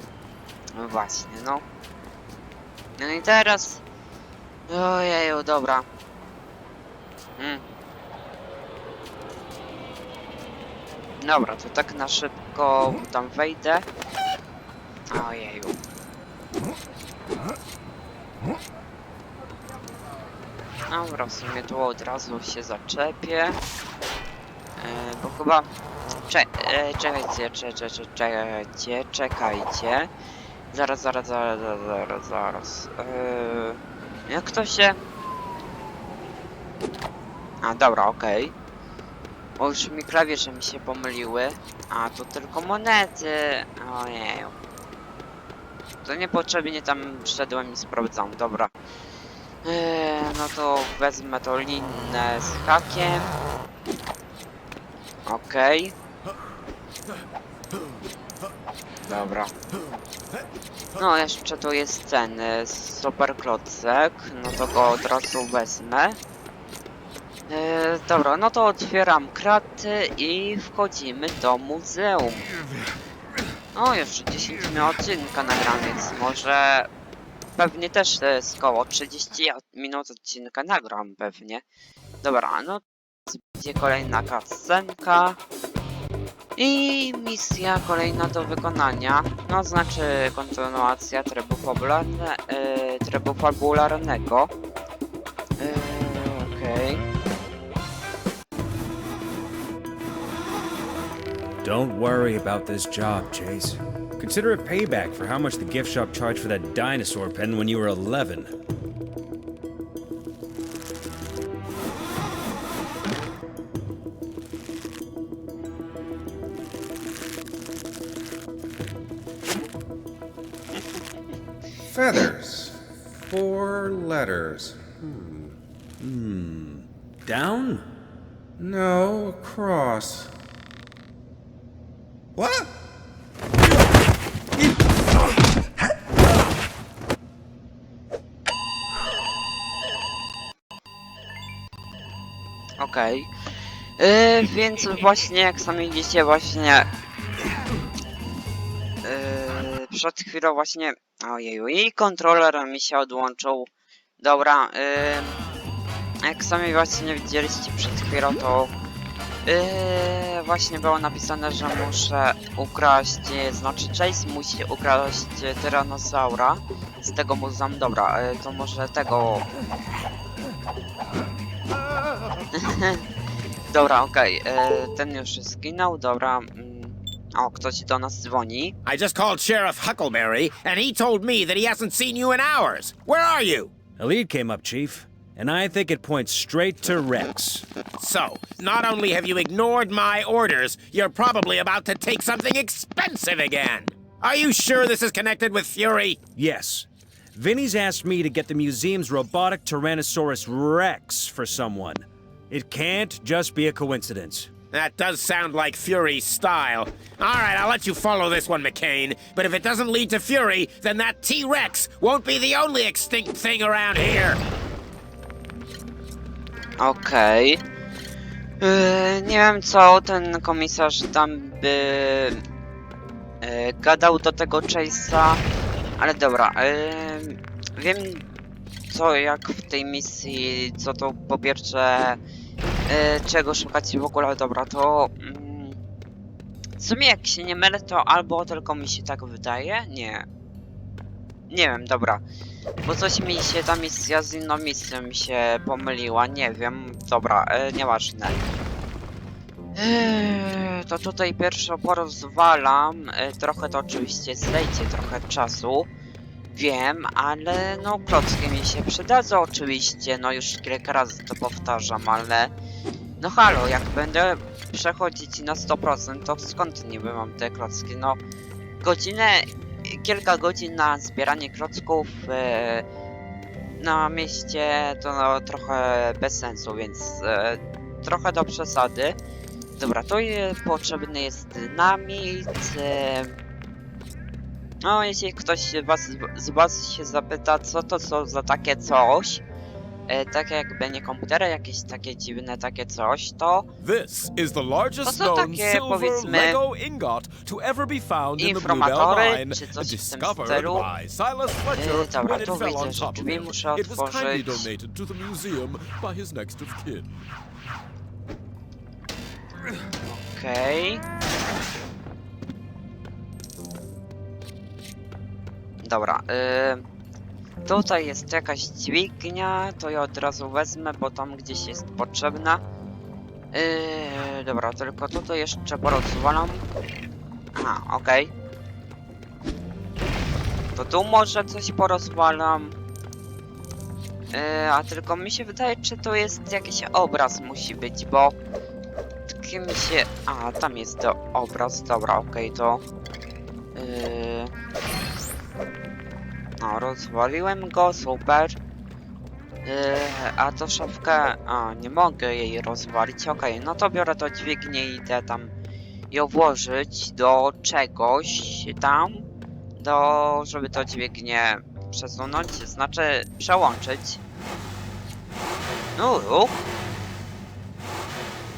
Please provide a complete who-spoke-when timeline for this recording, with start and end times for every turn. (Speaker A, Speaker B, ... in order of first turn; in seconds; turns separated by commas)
Speaker A: 0.8-1.6, Speaker A: 3.0-3.8, Speaker A: 4.7-5.9, Speaker A: 7.4-7.6, Speaker A: 11.2-13.9, Speaker A: 15.1-15.8, Speaker A: 20.9-23.6, Speaker A: 24.8-25.7, Speaker A: 26.3-30.1, Speaker A: 30.7-35.0, Speaker A: 37.6-38.5, Speaker A: 39.6-44.5, Speaker A: 46.0-48.7, Speaker A: 49.6-53.3, Speaker A: 55.3-55.9, Speaker A: 59.0-59.5, Speaker A: 61.0-66.2, Speaker A: 67.5-72.4, Speaker A: 73.8-76.9, Speaker A: 77.6-81.6, Speaker A: 82.2-85.4, Speaker A: 86.6-94.5, Speaker A: 95.6-97.0, Speaker B: 101.6-108.5, Speaker C: 121.9-125.6, Speaker B: 126.0-127.8, Speaker C: 128.6-130.3, Speaker C: 132.4-132.7, Speaker A: 142.8-143.3, Speaker A: 144.0-146.9, Speaker A: 149.0-153.7, Speaker A: 154.2-155.4, Speaker A: 156.2-158.7, Speaker A: 159.4-169.4, Speaker A: 172.5-173.0, Speaker A: 173.7-178.8, Speaker D: 178.8-183.7, Speaker B: 184.0-187.7, Speaker D: 188.0-196.2, Speaker B: 196.4-204.5, Speaker D: 204.7-214.4, Speaker A: 216.8-217.6, Speaker A: 218.6-222.4, Speaker A: 223.4-225.4, Speaker A: 226.0-228.2, Speaker A: 228.9-232.2, Speaker A: 232.9-235.8, Speaker A: 236.8-240.3, Speaker A: 241.5-242.2, Speaker A: 242.8-248.4, Speaker A: 249.8-255.9, Speaker A: 256.5-262.5, Speaker A: 263.2-268.2, Speaker A: 268.8-272.9, Speaker A: 273.8-279.2, Speaker A: 279.8-283.4, Speaker A: 284.8-289.4, Speaker A: 290.1-293.7, Speaker E: 293.8-307.1, Speaker A: 295.0-296.6, Speaker A: 298.4-300.9, Speaker A: 301.7-304.7, Speaker A: 310.1-311.0, Speaker A: 315.8-316.8, Speaker A: 317.6-322.6, Speaker A: 323.5-326.6, Speaker A: 327.6-328.3, Speaker A: 330.8-332.8, Speaker A: 334.3-338.4, Speaker A: 339.4-342.8, Speaker A: 343.8-344.5, Speaker A: 346.6-348.6, Speaker A: 349.6-355.5, Speaker A: 356.1-359.3, Speaker A: 359.8-364.2, Speaker A: 366.0-366.6